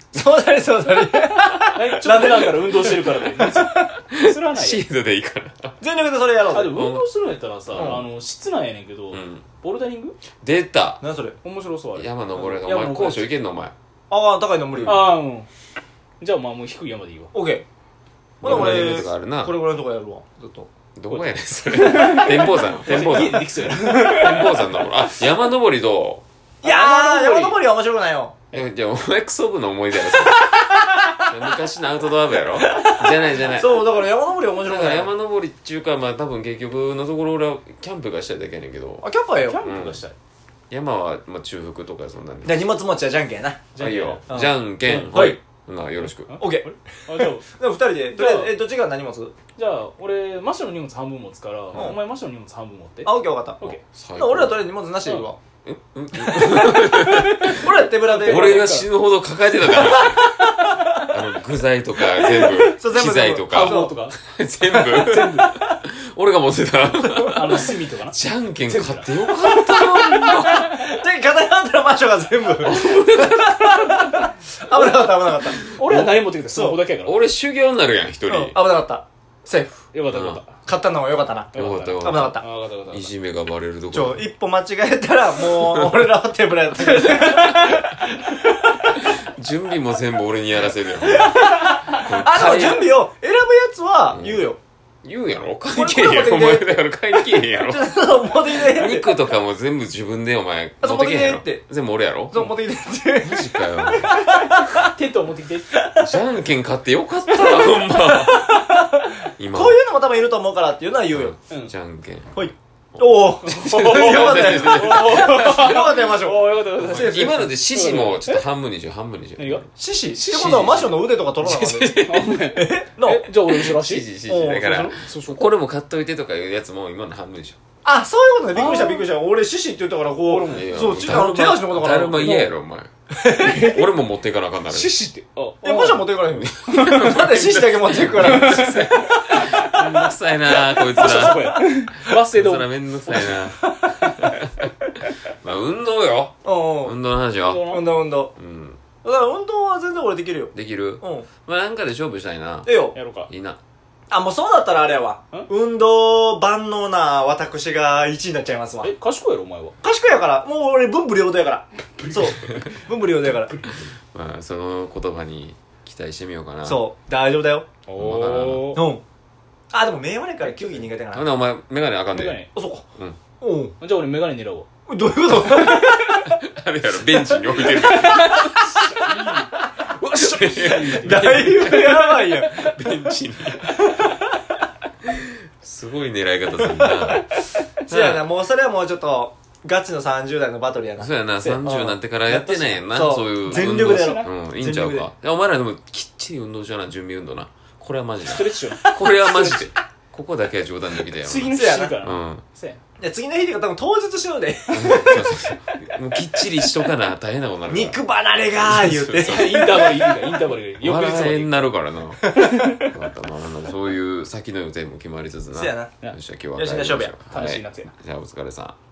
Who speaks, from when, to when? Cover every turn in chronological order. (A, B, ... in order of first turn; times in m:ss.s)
0:00.1-0:03.9 A
0:01.7-0:04.8 B
0:04.1-0:05.8 C
0:05.8-0:06.8 A
0:06.5-0:10.2 B
0:06.7-0:07.1 C
0:07.7-0:08.0 C
0:09.1-0:09.4 C
0:10.4-0:11.0 C
0:11.0-0:11.4 A
0:11.4-0:13.3 B
0:11.9-0:13.7 C
0:14.1-0:15.2 A
0:14.8-0:15.5 B
0:16.2-0:17.3 B
0:17.3-0:17.6 A
0:18.4-0:20.7 A
0:18.4-0:19.0 B
0:18.4-0:19.5 C
0:21.0-0:26.2 C
0:21.1-0:24.8 B
0:26.6-0:28.3 A
0:26.6-0:27.6 B
0:28.5-0:34.0 C
0:30.2-0:31.2 A
0:32.6-0:35.1 A
0:34.6-0:39.0 C
0:39.0-0:39.6 A
0:39.3-0:40.1 B
0:39.6-0:40.0 C
0:40.7-0:42.7 C
0:42.4-0:43.6 A
0:43.7-0:44.3 B
0:43.8-0:46.3 C
0:44.3-0:45.4 A
0:44.8-0:45.4 B
0:46.0-0:47.5 B
0:46.4-0:49.3 A
0:48.1-0:48.5 B
0:49.6-0:53.8 B
0:51.7-0:52.0 A
0:53.0-0:55.4 A
0:53.7-0:54.6 C
0:55.6-1:00.4 C
0:56.2-0:58.9 B
0:57.5-0:58.7 A
0:59.7-1:01.1 A
1:01.1-1:10.7 C
1:02.2-1:04.0 A
1:03.5-1:04.2 B
1:04.7-1:05.1 A
1:04.9-1:05.6 B
1:07.0-1:07.3 A
1:07.3-1:10.3 B
1:09.8-1:16.8 A
1:12.6-1:13.7 C
1:15.7-1:17.2 B
1:17.0-1:18.6 C
1:18.3-1:19.8 A
1:19.9-1:20.6 B
1:20.1-1:20.4 C
1:20.6-1:22.4 A
1:21.5-1:23.1 B
1:21.5-1:24.2 C
1:23.9-1:29.1 A
1:29.1-1:32.9 C
1:31.0-1:34.6 A
1:34.1-1:34.4 C
1:35.0-1:37.9 C
1:35.7-1:39.1 A
1:38.5-1:42.5 C
1:40.8-1:41.6 A
1:42.3-1:44.9 A
1:43.2-1:44.4 C
1:44.5-1:45.7 B
1:46.0-1:48.6 C
1:47.3-1:51.3 A
1:49.4-1:49.8 C
1:51.1-1:52.4 C
1:52.3-1:57.5 A
1:53.0-1:55.8 C
1:53.4-1:58.4 B
1:56.8-1:59.6 C
1:59.4-2:00.7 B
1:59.8-2:03.3 A
2:00.3-2:02.5 C
2:02.0-2:04.1 B
2:03.4-2:07.6 C
2:04.3-2:05.0 A
2:04.9-2:05.5 B
2:07.8-2:12.3 A
2:08.5-2:08.8 C
2:08.6-2:09.1 B
2:10.2-2:11.0 B
2:10.5-2:12.9 C
2:12.1-2:12.5 B
2:13.1-2:13.8 A
2:13.3-2:13.9 B
2:13.5-2:14.9 C
2:14.7-2:17.2 B
2:15.6-2:19.8 A
2:16.2-2:24.6 C
2:18.1-2:24.3 B
2:21.0-2:21.5 A
2:25.3-2:27.8 C
2:26.4-2:27.0 A
2:27.4-2:27.9 B
2:27.6-2:28.3 A
2:28.3-2:28.8 C
2:29.0-2:31.3 A
2:30.5-2:32.7 C
2:32.6-2:32.9 A
2:32.9-2:33.3 B
2:33.3-2:33.6 C
2:34.1-2:38.9 A
2:38.8-2:39.8 B
2:39.8-2:43.6 A
2:42.0-2:42.8 B
2:44.1-2:46.8 C
2:46.6-2:47.7 A
2:47.9-2:48.8 B
2:48.0-2:48.7 C
2:48.7-2:49.0 A
2:49.7-2:51.3 A
2:51.1-2:53.2 C
2:52.1-2:52.5 B
2:52.5-2:52.8 A
2:53.4-2:53.7 A
2:53.8-2:54.7 B
2:54.9-2:56.4 A
2:56.2-2:58.6 C
2:57.2-2:59.6 A
2:58.0-3:02.0 B
3:00.0-3:03.7 C
3:00.6-3:02.7 A
3:03.6-3:04.2 A
3:05.0-3:07.3 C
3:06.6-3:07.6 B
3:07.8-3:11.1 A
3:07.9-3:08.2 C
3:11.0-3:22.4 C
3:11.4-3:11.7 B
3:11.6-3:12.0 A
3:12.3-3:14.3 B
3:12.9-3:15.1 A
3:18.2-3:19.7 B
3:21.2-3:22.8 B
3:21.5-3:22.0 A
3:23.0-3:25.5 A
3:24.7-3:28.0 C
3:27.7-3:30.4 A
3:28.6-3:29.9 C
3:29.2-3:31.6 B
3:30.8-3:38.8 C
3:32.3-3:32.9 B
3:35.5-3:35.9 A
3:36.5-3:37.1 A
3:37.3-3:37.9 B